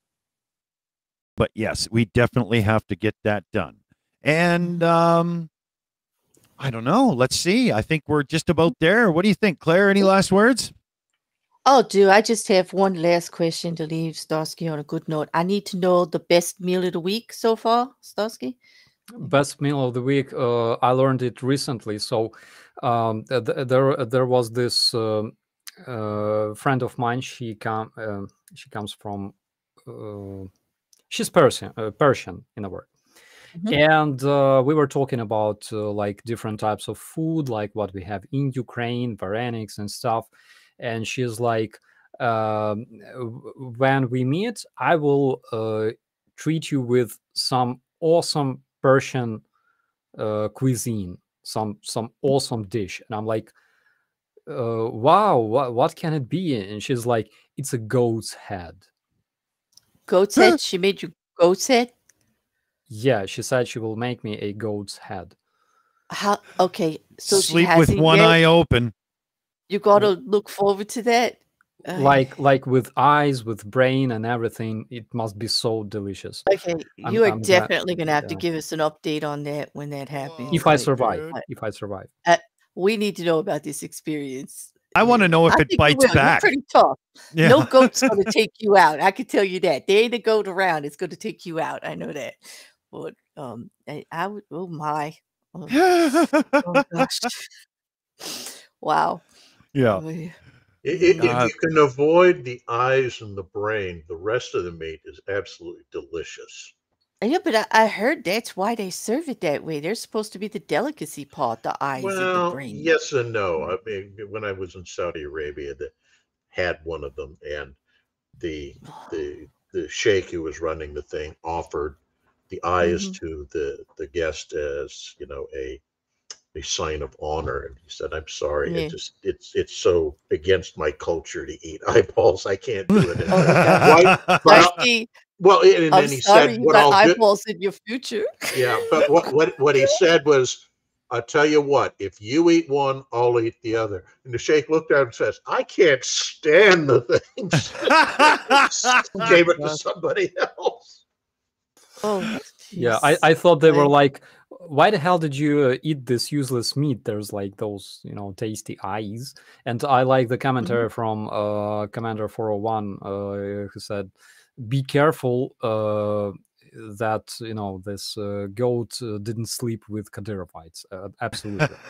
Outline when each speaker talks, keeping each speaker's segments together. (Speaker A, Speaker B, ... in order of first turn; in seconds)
Speaker A: 1.4-5.5, 6.6-10.7, 67.2-68.9, 80.2-81.4, 84.9-86.5, 87.3-88.3, 95.7-97.0, 99.7-100.0, 101.2-101.5, 132.9-134.7, 147.8-149.3
Speaker B: 11.7-18.6, 60.1-61.9, 66.1-68.4, 69.7-72.3, 76.5-81.4, 82.3-95.9, 96.6-97.5, 98.2-99.2, 99.9-100.4, 100.9-101.5, 107.2-113.0, 118.9-119.1, 122.8-123.2, 128.7-128.9, 133.3-135.1, 135.9-139.8, 152.0-153.9
Speaker C: 19.1-25.3, 25.8-29.3, 29.9-30.5, 31.1-32.9, 33.7-49.4, 50.2-53.5, 54.5-58.8, 62.9-65.3, 71.9-76.5, 77.0-78.4, 80.5-82.1, 152.8-171.8
Speaker D: 100.8-106.7, 112.0-115.9, 116.5-117.8, 118.4-125.8, 126.5-134.8, 135.4-137.2, 138.5-151.0